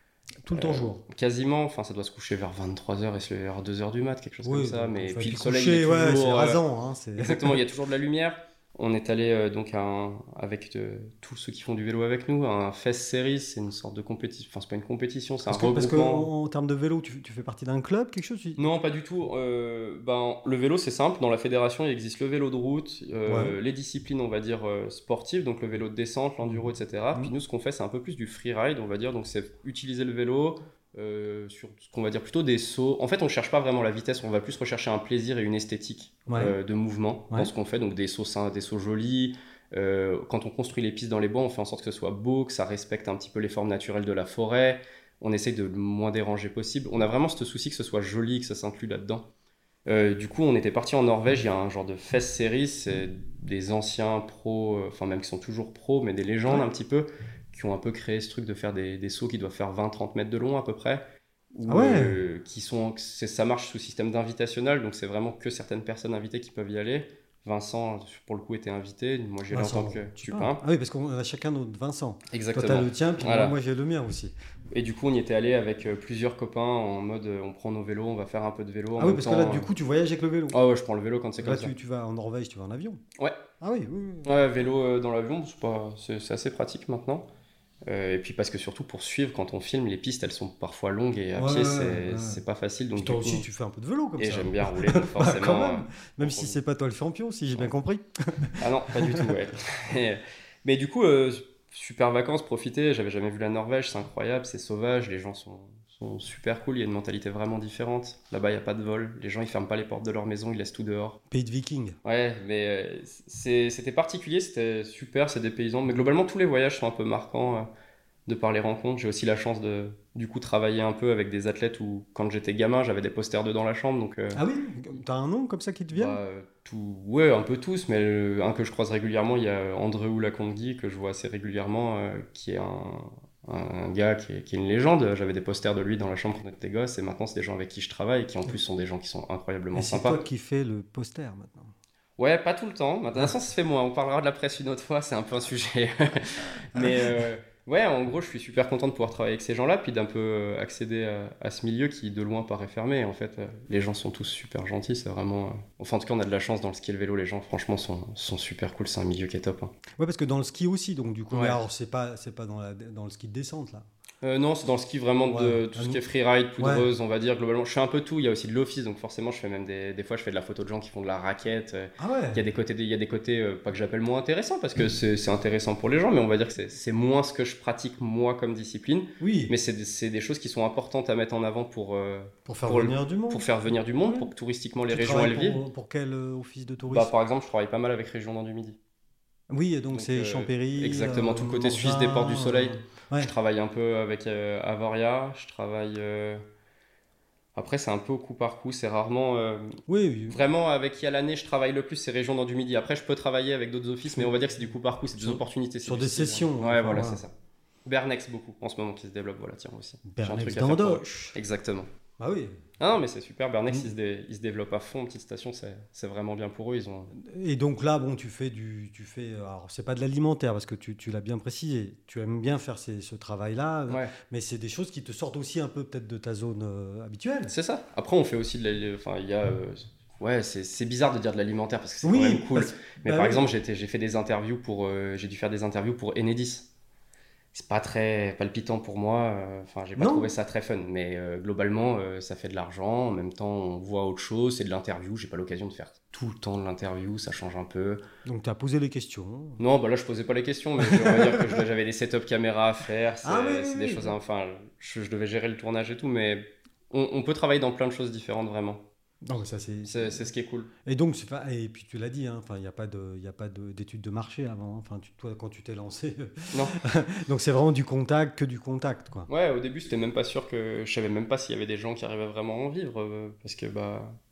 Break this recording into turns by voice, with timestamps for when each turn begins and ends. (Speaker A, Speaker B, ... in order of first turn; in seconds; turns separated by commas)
Speaker A: 0.5-1.0, Speaker B: 0.6-6.6, Speaker A: 4.4-7.6, Speaker B: 7.2-16.3, Speaker A: 15.5-18.6, Speaker B: 18.6-49.3, Speaker A: 23.3-23.6, Speaker A: 36.3-36.6, Speaker B: 49.9-61.0, Speaker B: 61.5-70.6, Speaker A: 61.7-62.2, Speaker A: 69.5-74.3, Speaker B: 72.3-73.5, Speaker B: 74.7-79.7, Speaker A: 79.0-80.6, Speaker B: 80.5-81.7, Speaker A: 81.4-83.0, Speaker A: 83.6-84.4, Speaker B: 84.2-87.3, Speaker B: 87.9-93.5, Speaker A: 91.4-92.4, Speaker A: 93.0-99.3, Speaker B: 94.2-96.6, Speaker B: 98.6-111.2, Speaker A: 111.3-112.0, Speaker B: 112.0-117.7, Speaker B: 118.3-124.4, Speaker A: 124.3-126.2, Speaker B: 125.9-140.2, Speaker A: 139.7-141.7, Speaker B: 142.2-159.7, Speaker A: 146.8-147.2, Speaker A: 160.0-163.9, Speaker B: 161.3-161.6, Speaker B: 164.2-185.6, Speaker A: 165.3-166.0, Speaker A: 166.6-166.9, Speaker A: 172.0-172.4, Speaker A: 179.2-179.5, Speaker A: 182.5-183.5, Speaker A: 184.0-184.3, Speaker A: 184.9-187.1, Speaker B: 186.9-188.8, Speaker A: 189.5-193.3, Speaker B: 189.9-196.4, Speaker B: 197.6-207.3, Speaker A: 199.9-200.4, Speaker A: 204.1-204.3, Speaker A: 205.2-207.2, Speaker B: 207.9-211.9, Speaker A: 210.1-211.4, Speaker A: 212.2-212.6, Speaker B: 212.8-217.1, Speaker A: 217.1-227.5, Speaker B: 223.9-224.1, Speaker B: 227.5-236.7, Speaker A: 232.0-233.4, Speaker B: 237.5-248.0, Speaker A: 240.0-240.3, Speaker A: 248.2-249.6, Speaker B: 249.6-258.8, Speaker A: 250.8-251.6, Speaker A: 253.2-254.1, Speaker A: 259.2-260.3, Speaker B: 259.9-260.7, Speaker A: 260.9-269.3, Speaker B: 266.5-266.8, Speaker B: 269.3-274.2